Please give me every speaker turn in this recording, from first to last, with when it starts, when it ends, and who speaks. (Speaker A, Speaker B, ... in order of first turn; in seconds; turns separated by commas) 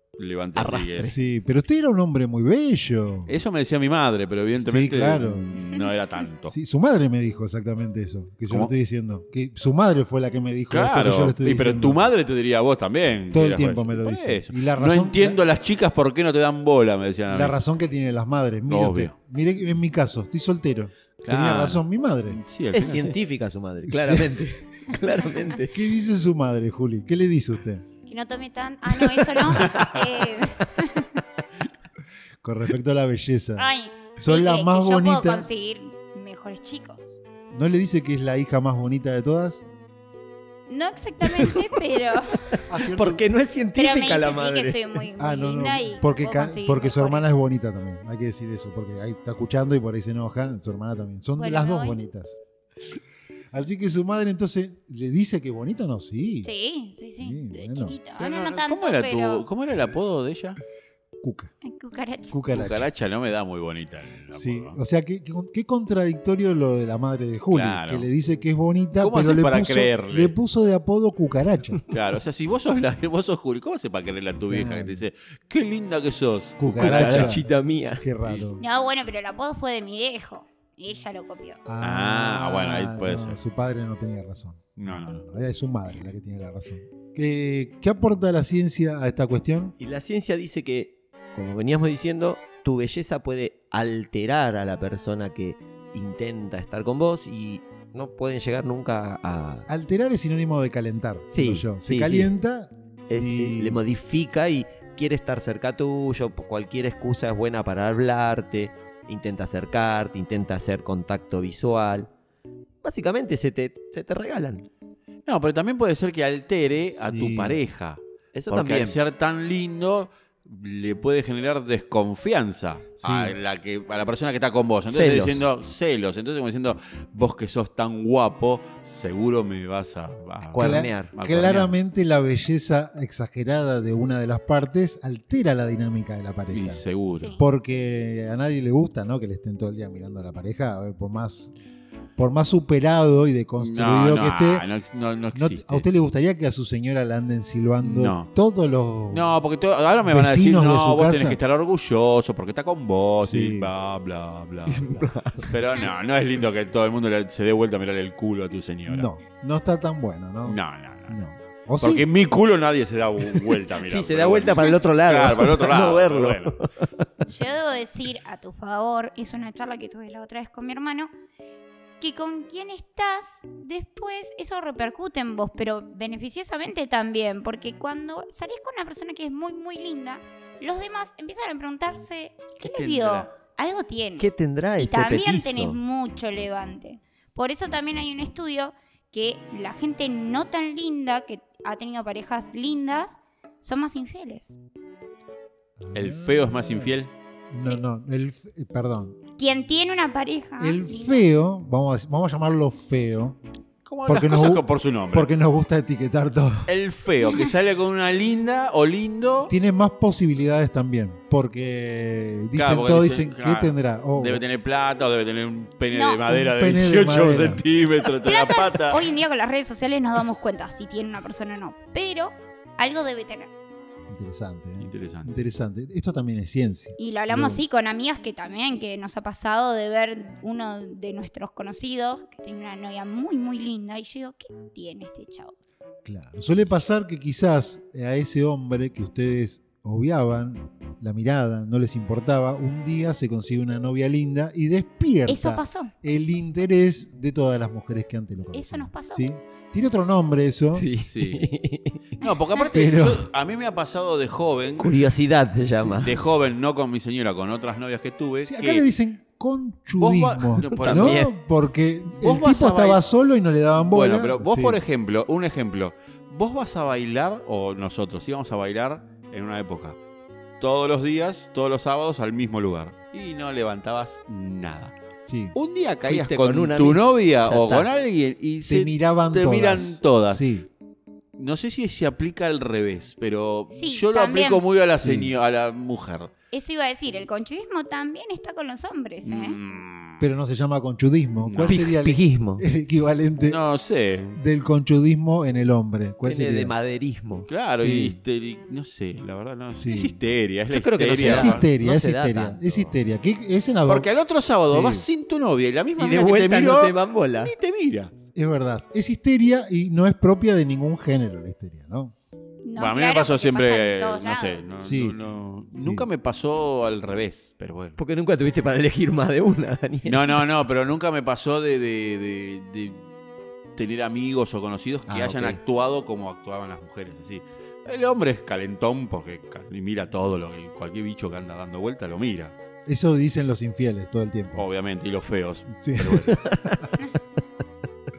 Speaker A: 0.2-1.1, Speaker B: 0.6-1.2, Speaker C: 1.0-3.3, Speaker A: 3.3-6.5, Speaker C: 4.6-5.6, Speaker C: 6.5-12.0, Speaker A: 10.7-17.6, Speaker C: 13.3-15.4, Speaker C: 17.3-22.4, Speaker A: 18.7-19.1, Speaker A: 21.2-23.2, Speaker B: 22.7-25.8, Speaker C: 23.9-24.5, Speaker C: 25.7-27.8, Speaker D: 28.1-31.1, Speaker B: 29.1-29.9, Speaker C: 32.4-33.6, Speaker D: 33.6-37.2, Speaker C: 34.2-35.5, Speaker C: 37.5-39.6, Speaker D: 40.7-42.6, Speaker B: 41.4-41.6, Speaker B: 42.6-45.0, Speaker C: 42.7-43.2, Speaker D: 43.7-47.2, Speaker C: 45.2-52.4, Speaker D: 51.4-52.0, Speaker C: 53.5-56.5, Speaker D: 56.4-59.5, Speaker C: 57.2-58.0, Speaker A: 58.2-60.6, Speaker C: 61.2-61.5, Speaker D: 61.6-62.4, Speaker C: 62.3-62.9, Speaker A: 62.5-64.8, Speaker C: 64.3-71.8, Speaker A: 67.5-68.1, Speaker A: 69.0-70.3, Speaker A: 71.9-77.4, Speaker C: 74.4-75.0, Speaker C: 76.6-77.5, Speaker B: 76.8-78.0, Speaker C: 78.0-78.6, Speaker A: 78.2-78.5, Speaker D: 78.6-81.6, Speaker C: 81.7-89.7, Speaker A: 81.8-83.4, Speaker A: 84.8-85.2, Speaker B: 89.8-99.7, Speaker C: 99.7-103.8, Speaker B: 101.3-102.3, Speaker B: 103.1-112.1, Speaker B: 112.8-114.7, Speaker A: 115.2-131.7, Speaker C: 116.9-117.6, Speaker B: 118.3-119.0, Speaker C: 123.0-123.4, Speaker B: 124.9-125.5, Speaker B: 130.5-131.1, Speaker C: 130.6-136.8, Speaker A: 136.5-137.3, Speaker C: 137.4-141.5, Speaker C: 142.2-144.7, Speaker A: 143.6-145.8, Speaker C: 145.3-149.2, Speaker A: 147.8-148.3, Speaker A: 149.1-159.1, Speaker C: 150.0-151.4, Speaker C: 153.2-153.7, Speaker B: 154.7-155.6, Speaker C: 158.9-160.6, Speaker A: 160.4-161.2, Speaker C: 161.1-162.1, Speaker A: 161.8-166.6, Speaker B: 163.4-167.1, Speaker D: 167.3-171.1, Speaker D: 172.0-184.3, Speaker A: 182.6-183.3, Speaker B: 184.2-185.8, Speaker D: 184.8-194.6, Speaker C: 195.8-196.9, Speaker A: 195.9-197.1, Speaker C: 197.5-199.2, Speaker D: 199.4-201.2, Speaker C: 200.6-203.4, Speaker A: 203.8-205.3, Speaker C: 204.1-206.7, Speaker A: 206.7-209.5, Speaker C: 209.5-214.4, Speaker A: 212.5-219.0, Speaker D: 215.9-216.2, Speaker C: 216.2-217.6, Speaker D: 218.2-223.5, Speaker C: 224.1-227.6, Speaker A: 224.8-225.3, Speaker D: 227.0-235.5, Speaker C: 236.0-250.9, Speaker D: 245.2-245.9, Speaker D: 248.5-249.3, Speaker B: 250.7-252.0, Speaker A: 251.0-251.5, Speaker A: 252.2-255.1, Speaker D: 252.2-252.6, Speaker C: 252.7-253.3, Speaker B: 254.8-256.2, Speaker C: 255.7-256.3, Speaker A: 256.0-258.9, Speaker C: 258.4-264.8, Speaker A: 260.0-261.3, Speaker B: 260.6-261.3, Speaker A: 262.2-263.0, Speaker A: 263.9-270.0, Speaker A: 270.6-274.9, Speaker C: 275.2-275.5, Speaker A: 275.5-280.4, Speaker B: 276.0-277.9, Speaker C: 278.7-280.7, Speaker A: 281.4-286.3, Speaker D: 283.7-284.8, Speaker C: 284.9-285.3, Speaker D: 286.5-289.6, Speaker A: 289.2-290.3, Speaker C: 290.2-293.6, Speaker A: 291.4-291.8, Speaker B: 291.6-292.6, Speaker A: 293.4-294.4, Speaker C: 294.3-296.7, Speaker B: 296.2-297.5, Speaker A: 297.5-301.6, Speaker C: 297.7-298.2, Speaker C: 299.8-300.1, Speaker B: 300.7-302.9, Speaker C: 301.2-304.1, Speaker A: 303.9-308.1, Speaker C: 304.6-305.0, Speaker B: 306.0-307.5, Speaker C: 308.2-312.1, Speaker D: 312.6-314.7, Speaker A: 312.8-318.0, Speaker C: 314.8-315.2, Speaker C: 315.7-316.1, Speaker B: 318.0-320.4, Speaker A: 320.0-323.0, Speaker A: 323.8-332.5, Speaker B: 325.1-325.6, Speaker C: 332.9-334.6, Speaker A: 334.6-336.7, Speaker C: 335.7-336.5